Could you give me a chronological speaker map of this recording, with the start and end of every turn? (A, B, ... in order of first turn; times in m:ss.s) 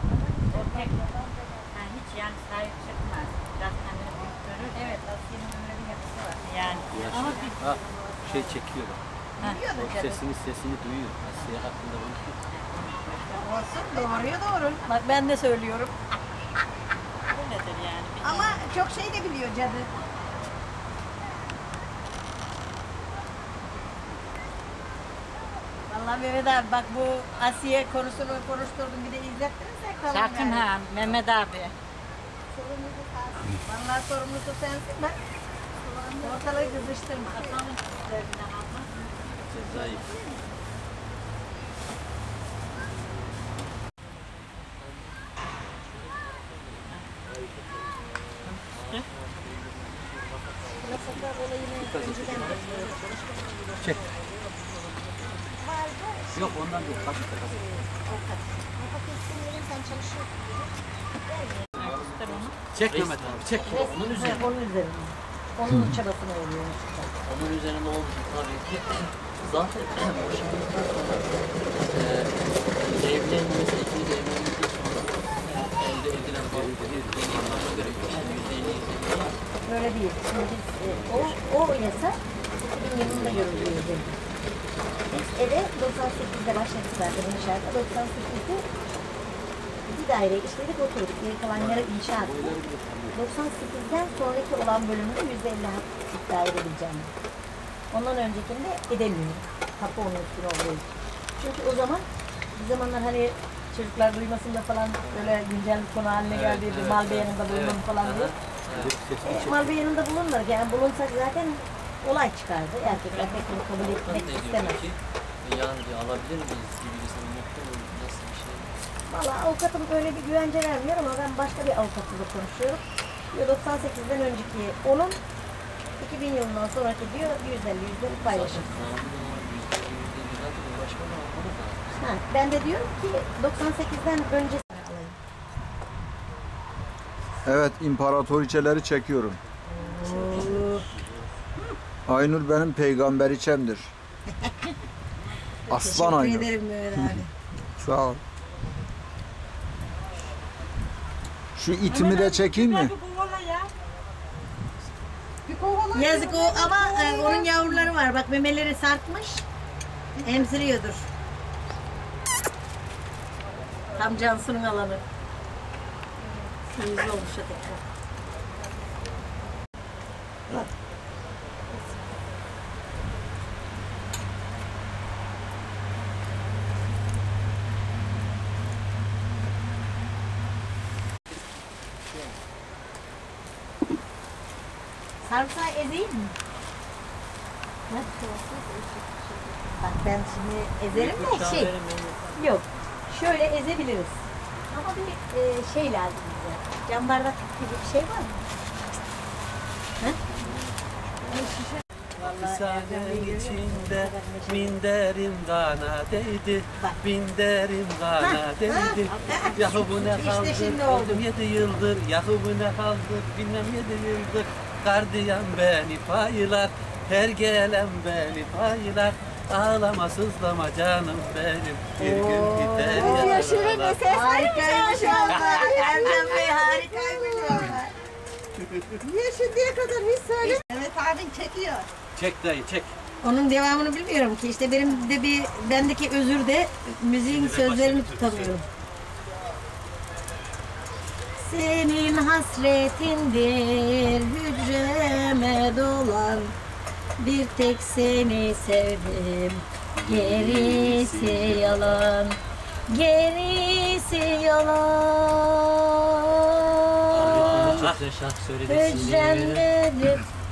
0:00.5-0:01.0 A
0:00.5-0:00.9 B
0:01.2-0:01.5 C
0:01.7-0:05.0 A
0:04.7-0:08.5 C
0:06.4-0:07.8 A
0:06.9-0:09.0 D
0:09.4-0:09.6 A
0:09.4-0:10.2 C
0:09.8-0:12.4 D
0:11.2-0:11.7 A
0:12.5-0:13.6 A
0:13.3-0:15.9 C
0:17.3-0:18.6 A
0:18.2-0:19.9 C
0:25.9-0:30.7 C
0:30.1-0:31.7 A
0:32.5-0:33.5 B
0:33.5-0:35.2 C
0:35.8-0:37.6 B
0:36.2-0:37.6 C
0:37.3-0:38.9 A
0:39.5-0:40.1 D
0:39.6-0:40.3 B
0:44.8-0:45.1 E
0:45.6-0:46.9 E
0:47.3-0:47.6 D
0:48.4-0:49.1 A
0:48.4-0:51.3 E
0:50.8-0:53.0 C
0:51.8-0:52.6 D
0:52.0-0:55.4 E
0:55.6-1:00.7 C
0:56.3-0:57.8 D
1:01.2-1:01.6 C
1:01.7-1:02.6 A
1:01.8-1:04.4 E
1:02.7-1:04.4 D
1:03.6-1:07.1 C
1:07.2-1:19.4 E
1:16.2-1:18.5 D
1:19.6-1:24.2 C
1:20.8-1:21.4 D
1:23.0-1:23.8 D
1:24.9-1:25.2 E
1:25.3-1:28.6 C
1:29.9-1:32.6 C
1:31.5-1:33.2 D
1:33.1-1:37.1 C
1:37.9-1:48.3 C
1:45.0-1:45.4 E
1:46.2-1:49.0 E
1:48.7-1:49.7 D
1:49.2-1:54.8 C
1:53.1-1:58.7 E
1:59.1-2:05.2 C
2:06.0-2:08.7 C
2:08.1-2:12.0 E
2:12.0-2:15.2 C
2:17.4-2:19.4 F
2:19.6-2:20.9 C
2:22.1-2:23.9 F
2:24.4-2:24.7 C
2:25.7-2:28.2 F
2:25.7-2:27.3 C
2:31.5-2:32.9 F
2:31.9-2:33.5 B
2:32.6-2:33.0 A
2:35.5-2:37.9 B
2:35.9-2:39.4 C
2:40.2-2:41.1 C
2:44.0-2:45.0 C
2:46.7-2:47.8 C
3:05.2-3:06.3 C
3:07.9-3:08.4 C
3:08.2-3:09.6 B
3:09.7-3:11.7 C
3:10.9-3:12.6 E
3:12.4-3:18.3 C
3:20.0-3:21.6 E
3:22.2-3:24.8 C
3:22.2-3:44.0 D
3:28.2-3:31.2 C
3:29.1-3:29.5 E
3:42.0-3:43.5 C
3:42.8-3:47.8 B
3:44.1-3:48.0 C
3:49.0-3:51.9 B
3:52.1-3:52.9 D
3:53.2-3:58.6 C
3:57.2-3:58.6 D
4:01.4-4:06.5 C
4:07.2-4:12.4 C
4:10.0-4:12.0 E
4:12.9-4:15.7 C
4:17.1-4:17.8 C
4:17.1-4:18.0 D
4:17.1-4:19.7 E
4:18.7-4:20.2 C